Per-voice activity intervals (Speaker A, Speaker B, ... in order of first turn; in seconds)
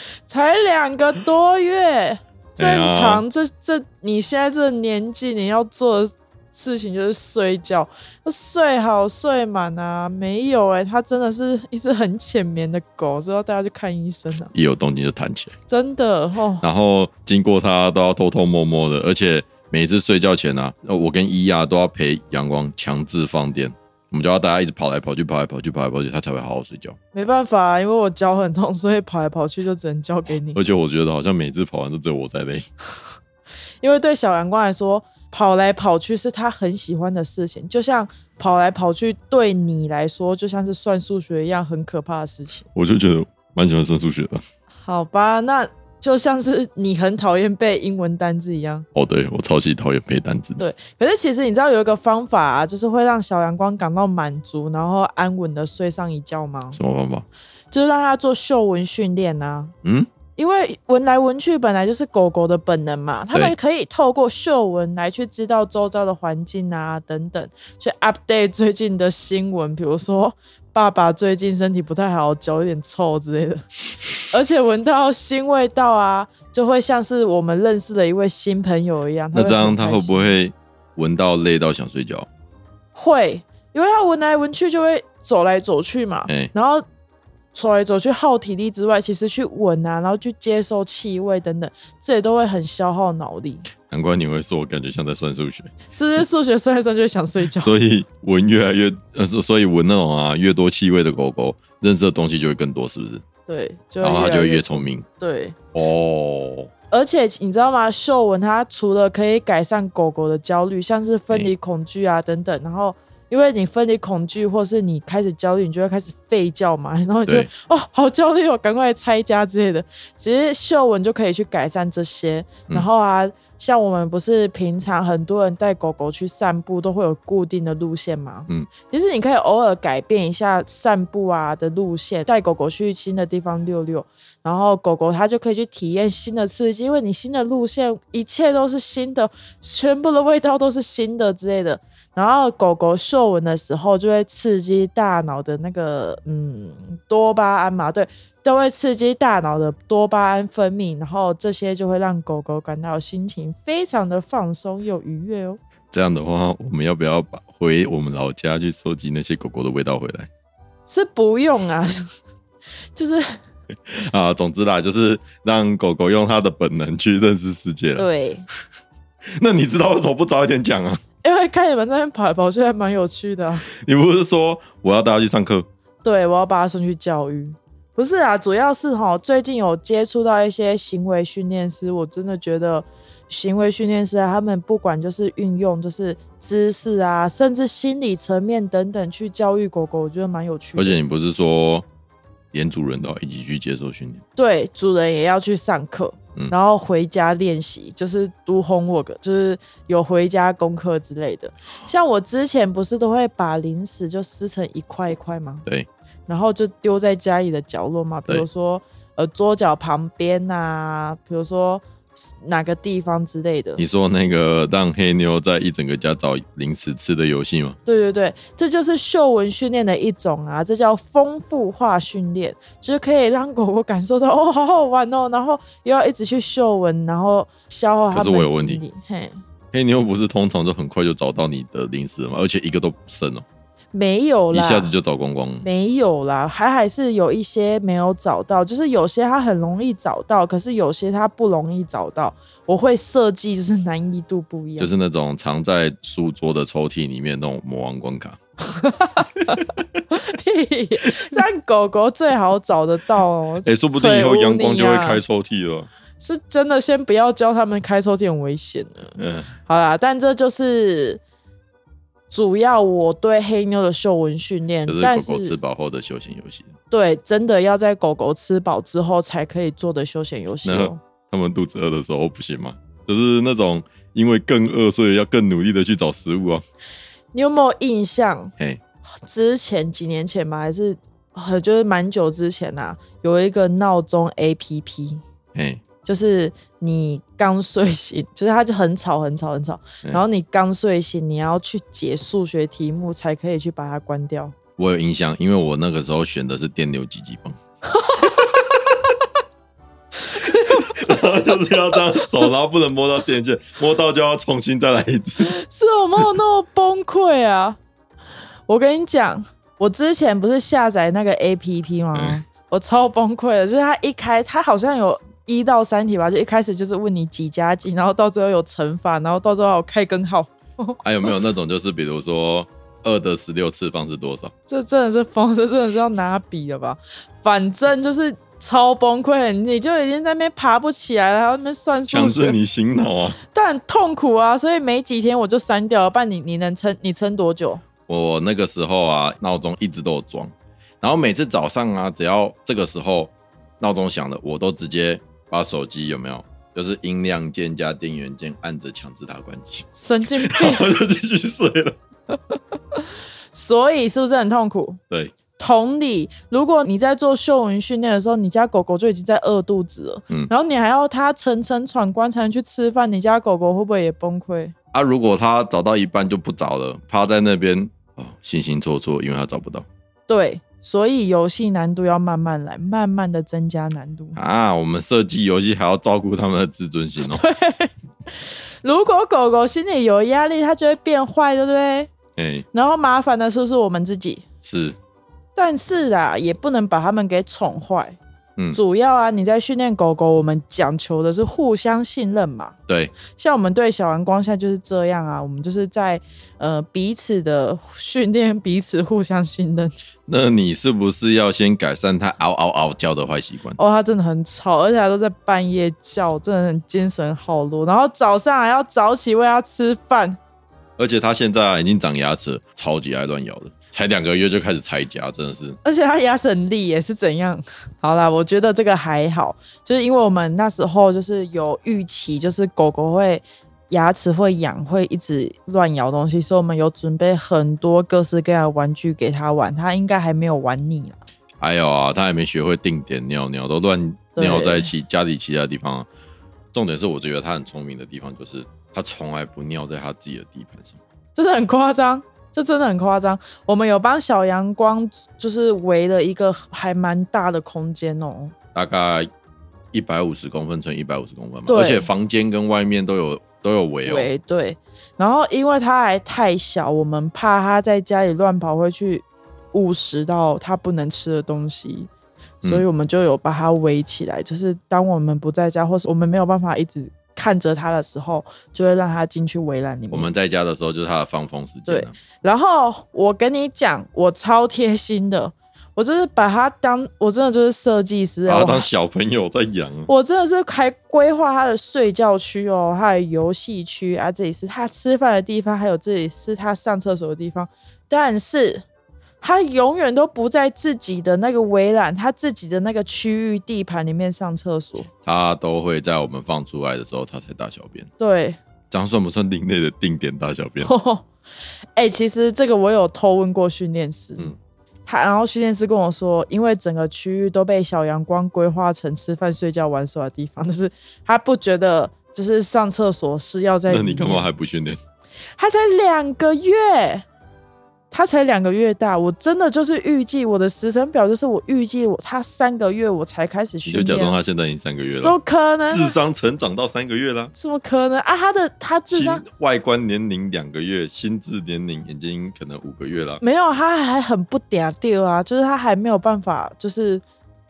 Speaker A: 0.3-14.5, 15.7-16.6, 27.1-30.6, 33.8-42.7, 44.9-48.9, 50.6-56.8, 57.7-59.7, 60.4-73.7, 74.3-80.3, 83.0-86.8, 87.5-93.7, 95.9-97.8, 103.5-105.5, 106.9-155.6, 160.9-162.1, 163.0-163.4, 168.0-168.5, 171.2-173.7, 176.0-191.0, 194.4-205.7, 206.3-213.8, 217.9-229.4, 233.9-234.9, 235.6-244.9, 248.7-255.2, 256.2-261.2, 262.3-265.6, 266.9-271.0, 277.3-278.5, 279.2-285.2, 286.0-294.6, 298.0-298.4, 300.4-300.9, 305.4-307.8, 308.7-321.0, 324.7-332.6, 333.5-337.8, 350.0-350.9, 352.5-355.0, 355.6-364.7, 370.3-374.4, 377.2-382.1, 382.7-384.4, 385.6-388.2, 388.7-392.8, 393.3-399.9, 403.8-410.4, 415.8-431.2, 434.4-434.9, 441.4-448.5, 451.7-452.1, 454.1-462.1, 462.6-470.3, 471.9-478.9, 480.1-488.9, 489.4-495.1, 498.2-498.6, 500.8-501.3, 502.0-504.5, 505.1-514.5, 515.6-517.2, 518.1-524.4, 525.2-526.1, 527.6-529.4, 533.4-537.2
Speaker B: 2.6-3.2, 14.5-15.5, 16.6-27.0, 30.6-32.7, 42.7-44.4, 49.0-50.6, 56.7-57.2, 59.8-60.1, 79.3-82.3, 93.9-95.7, 97.6-103.2, 104.0-105.0, 105.7-106.7, 155.9-160.3, 163.9-168.1, 169.4-171.0, 173.7-175.7, 190.8-191.9, 192.5-194.2, 213.8-217.8, 228.1-228.8, 229.7-233.4, 234.5-235.7, 244.8-248.4, 253.6-255.9, 259.2-259.5, 264.9-266.7, 270.6-276.6, 285.5-285.8, 294.8-297.6, 300.7-305.5, 312.1-312.4, 321.0-324.5, 332.1-333.4, 338.1-349.9, 350.4-351.9, 364.9-369.9, 374.4-377.4, 382.4-382.6, 384.6-385.0, 392.9-393.1, 400.3-403.8, 411.0-415.8, 431.6-436.1, 436.7-441.0, 448.8-449.3, 449.9-454.3, 470.1-472.2, 478.5-480.1, 495.2-498.1, 498.9-500.9, 513.9-515.0, 523.9-525.4, 525.9-527.5, 529.1-533.4